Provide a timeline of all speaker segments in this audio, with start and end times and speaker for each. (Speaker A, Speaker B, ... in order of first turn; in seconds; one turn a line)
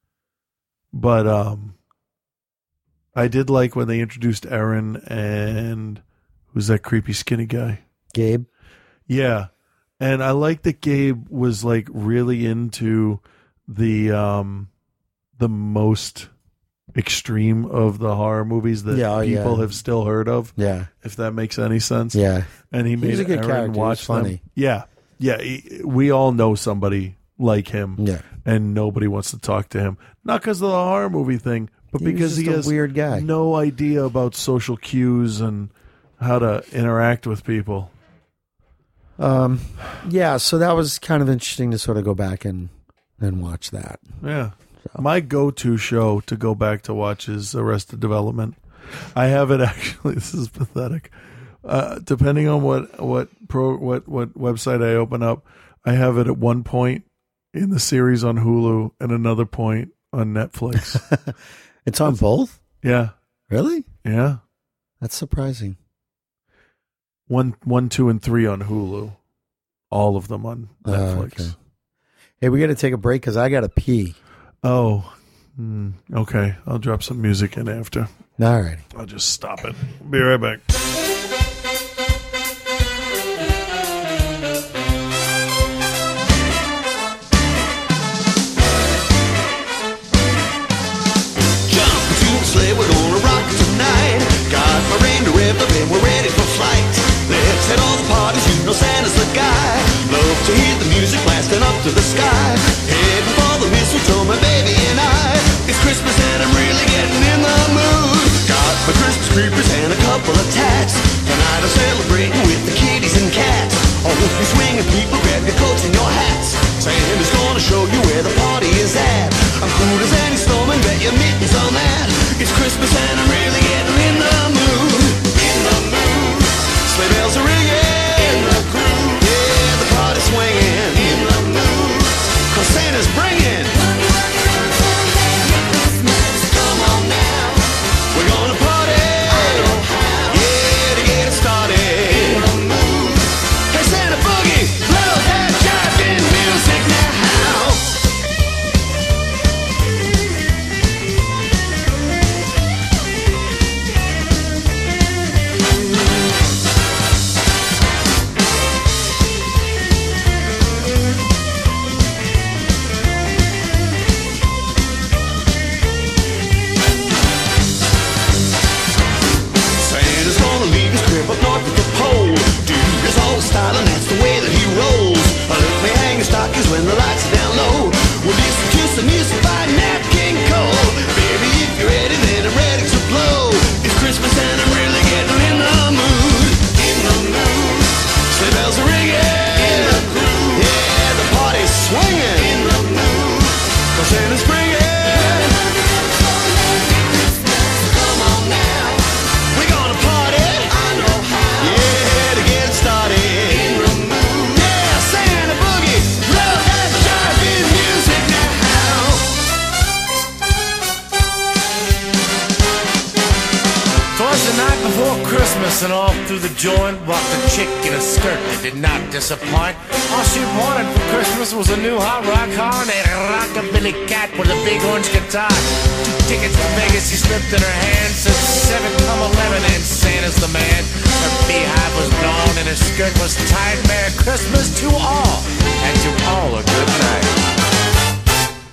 Speaker A: 0.9-1.8
Speaker A: 3.1-7.8
Speaker B: 8.1-8.5
Speaker A: 9.1-9.5
Speaker A: 10.0-14.7
Speaker A: 15.4-16.3
Speaker A: 16.9-37.9
Speaker B: 18.9-19.8
Speaker B: 20.6-20.9
Speaker B: 22.1-24.4
Speaker B: 28.0-28.2
Speaker B: 31.9-33.3
Speaker B: 39.2-44.0
Speaker A: 44.2-48.6
Speaker A: 49.1-51.1
Speaker A: 51.6-61.0
Speaker B: 60.9-61.2
Speaker B: 61.8-62.6
Speaker A: 62.8-63.1
Speaker B: 63.5-63.9
Speaker A: 64.0-64.4
Speaker B: 65.0-65.8
Speaker A: 67.3-69.2
Speaker A: 69.9-71.5
Speaker B: 70.8-71.5
Speaker B: 72.4-74.2
Speaker A: 74.6-78.1
Speaker B: 78.4-78.8
Speaker A: 78.9-80.6
Speaker C: 91.7-133.8
Speaker C: 136.1-148.0
Speaker C: 169.8-195.9
Speaker C: 197.6-209.4
Speaker D: 214.1-237.4